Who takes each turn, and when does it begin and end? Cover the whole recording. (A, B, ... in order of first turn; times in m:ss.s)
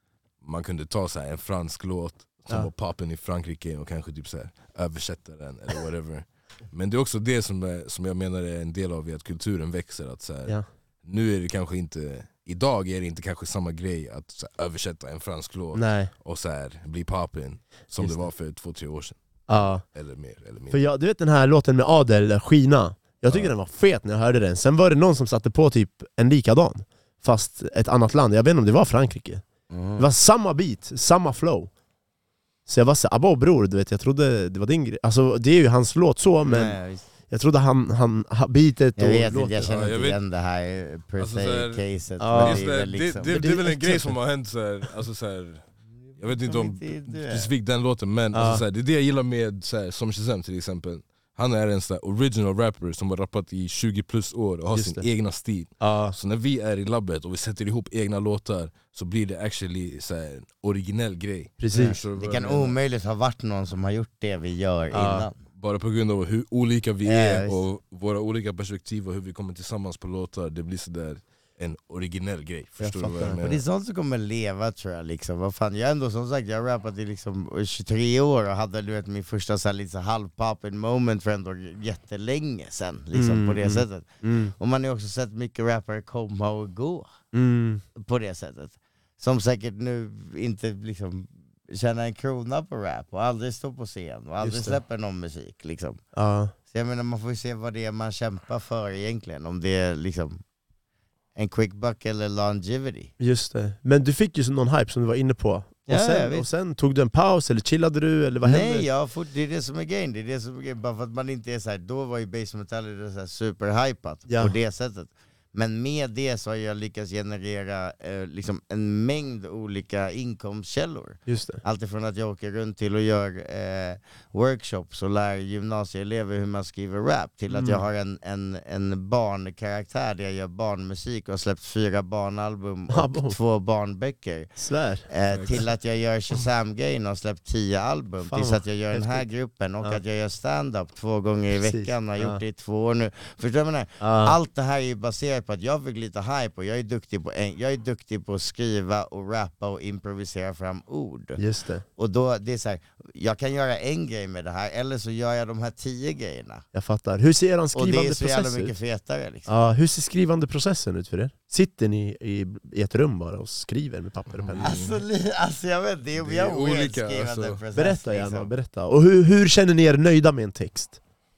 0:00.4-0:19.2 A
0:15.7-0:16.1 B
0:18.0-0:18.3 B
0:19.5-0:19.8 B
0:19.8-0:20.8 A
0:20.7-0:29.4 B
0:29.7-0:30.0 C
0:30.0-0:31.7 B
0:32.7-0:39.7 B
0:36.4-0:37.0 C
0:39.0-0:43.3 C
0:39.7-0:40.2 A
0:41.2-1:02.8 A
0:42.2-0:42.6 B
0:43.3-0:44.2 B
0:46.4-0:47.5 C
0:48.3-0:48.6 B
0:54.7-0:55.0 B
0:55.8-0:56.1 B
1:01.6-1:02.0 B
1:01.7-1:05.4 C
1:04.9-1:05.3 B
1:05.5-1:13.6 A
1:07.0-1:07.6 C
1:12.8-1:24.1 C
1:23.1-1:24.5 B
1:24.6-1:27.1 C
1:27.3-1:27.8 B
1:28.0-1:36.0 C
1:34.4-1:34.8 B
1:36.1-1:36.5 B
1:36.6-1:40.4 C
1:41.4-1:43.1 C
1:43.2-1:48.9 B
1:45.9-1:46.5 C
1:48.4-2:14.6 C
1:54.3-1:54.5 B
2:01.3-2:01.6 B
2:07.5-2:07.8 B
2:12.9-2:13.4 B
2:14.6-2:15.1 B
2:15.1-2:31.4 C
2:15.3-2:15.6 A
2:18.2-2:19.2 B
2:21.6-2:22.4 B
2:24.0-2:24.4 B
2:31.4-2:31.8 B
2:32.0-2:36.6 C
2:36.7-2:38.7 B
2:37.7-2:39.5 C
2:39.5-2:44.7 B
2:44.4-2:45.0 A
2:44.6-2:48.5 C
2:46.2-2:47.6 A
2:47.7-2:51.0 B